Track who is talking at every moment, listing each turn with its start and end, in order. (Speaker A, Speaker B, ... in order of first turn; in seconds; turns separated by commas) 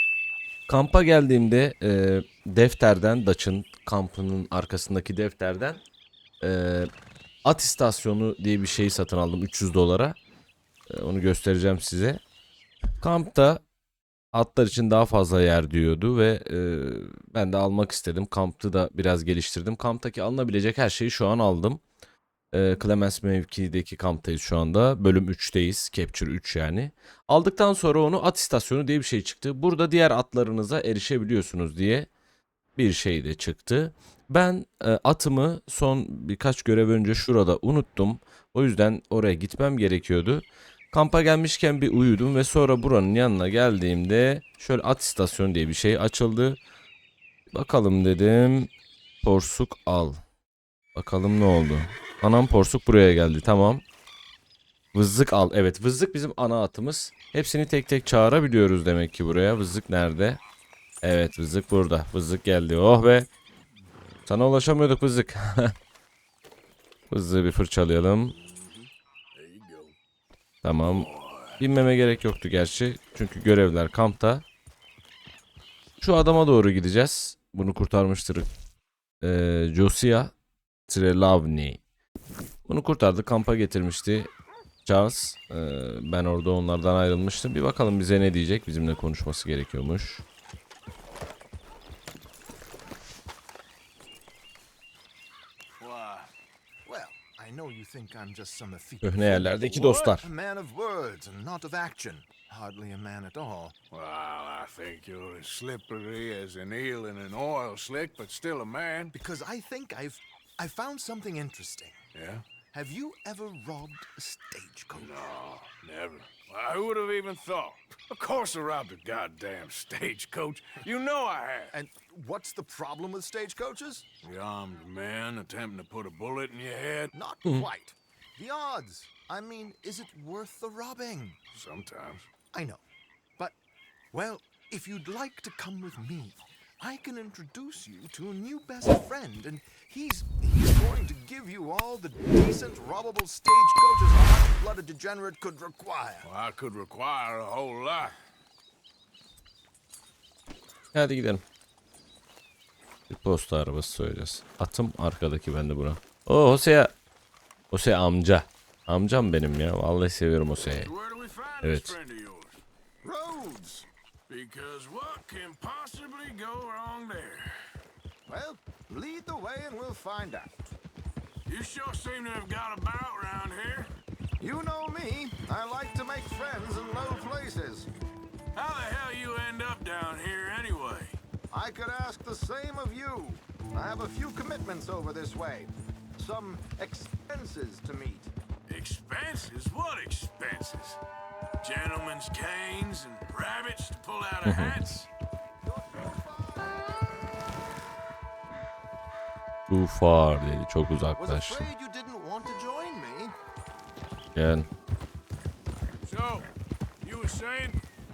Speaker A: 0.7-5.8, Speaker A: 6.4-6.9, Speaker A: 7.4-10.2, Speaker A: 10.9-12.2, Speaker A: 13.0-13.6, Speaker A: 14.3-21.8, Speaker A: 22.5-32.1, Speaker A: 32.8-46.6, Speaker A: 47.5-48.7, Speaker A: 49.2-50.2, Speaker A: 50.9-53.8, Speaker A: 54.9-60.4, Speaker A: 61.0-63.3, Speaker A: 64.3-65.7, Speaker A: 67.1-68.3, Speaker B: 68.3-69.9, Speaker A: 70.6-71.1, Speaker B: 70.8-71.6, Speaker A: 71.6-74.4, Speaker A: 76.0-78.5, Speaker A: 79.2-80.3, Speaker A: 80.9-81.8, Speaker A: 82.7-84.3, Speaker A: 84.8-90.2, Speaker B: 95.8-96.3, Speaker C: 96.8-103.7, Speaker A: 99.0-100.3, Speaker B: 99.5-100.1, Speaker B: 103.9-109.1, Speaker C: 109.1-112.0, Speaker B: 112.1-112.4, Speaker C: 112.7-115.2, Speaker B: 114.9-121.7, Speaker C: 121.7-124.0, Speaker B: 124.2-127.1, Speaker C: 127.1-131.4, Speaker B: 131.5-132.3, Speaker C: 132.5-132.8, Speaker C: 134.1-146.3, Speaker B: 146.2-148.1, Speaker A: 150.9-151.4, Speaker A: 153.1-156.9, Speaker A: 157.7-160.9, Speaker B: 160.8-162.6, Speaker A: 161.6-161.9, Speaker C: 163.0-163.9, Speaker B: 164.3-167.5, Speaker C: 168.3-170.7, Speaker B: 171.4-173.9, Speaker C: 174.4-177.9, Speaker B: 178.5-181.2, Speaker C: 181.5-188.3, Speaker B: 188.7-191.0, Speaker B: 191.6-195.1, Speaker A: 194.4-194.8, Speaker C: 195.6-197.1, Speaker A: 199.7-201.6, Speaker C: 201.2-203.3, Speaker A: 204.3-204.7, Speaker B: 206.0-207.8